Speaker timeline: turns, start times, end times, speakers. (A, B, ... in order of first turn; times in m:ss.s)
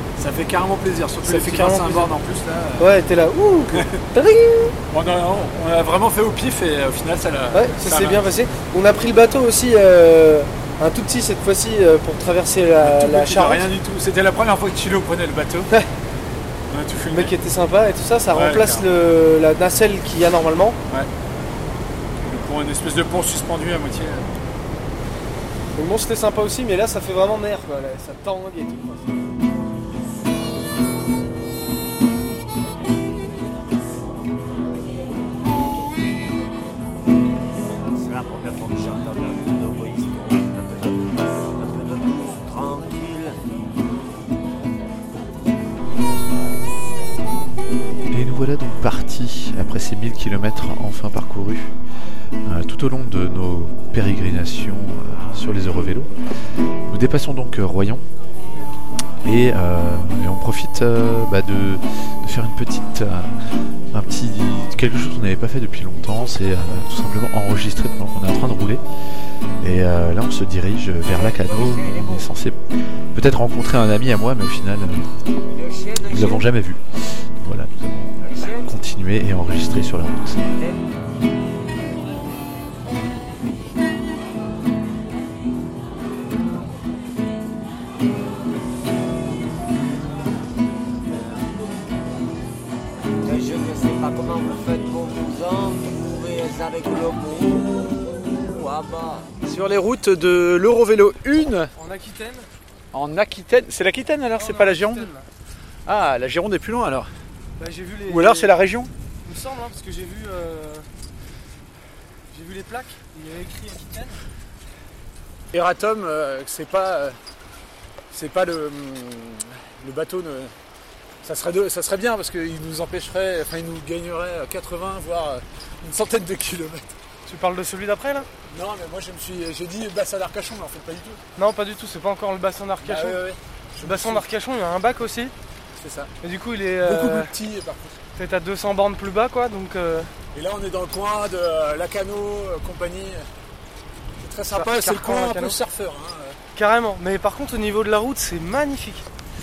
0:00.2-0:03.0 A
0:01.2-0:02.1 B
0:02.8-0:04.7 B
0:03.7-0:04.0 A
0:04.9-0:08.4 A
0:07.5-0:13.7 B
0:12.8-0:15.7 A
0:16.7-0:17.4 A
0:17.1-0:20.8 B
0:18.3-0:18.9 A
0:22.2-0:24.3 A
0:25.7-0:29.1 B
0:37.9-0:43.4 C
0:48.1-0:51.7 D
0:52.4-0:56.1 D
0:56.9-0:58.0 D
0:59.2-1:15.1 D
1:11.2-1:12.3 C
1:15.5-1:16.5 C
1:16.0-1:20.6 D
1:18.2-1:18.7 C
1:20.6-1:20.8 C
1:33.2-1:39.3 C
1:39.4-1:41.7 A
1:41.8-1:42.5 B
1:42.9-1:45.1 A
1:44.3-1:45.2 B
1:45.8-1:47.1 A
1:47.6-1:48.5 B
1:48.1-1:48.9 A
1:49.2-1:50.8 B
1:52.3-1:54.2 B
1:55.5-1:57.2 A
1:58.1-2:00.5 A
2:01.2-2:06.9 A
2:07.3-2:08.3 B
2:08.4-2:11.2 A
2:11.4-2:13.2 B
2:12.8-2:14.2 A
2:13.8-2:15.3 B
2:15.8-2:16.1 A
2:16.2-2:17.4 B
2:16.8-2:18.0 A
2:18.2-2:20.1 B
2:20.3-2:23.2 A
2:24.2-2:26.4 A
2:24.5-2:25.6 B
2:26.6-2:29.0 B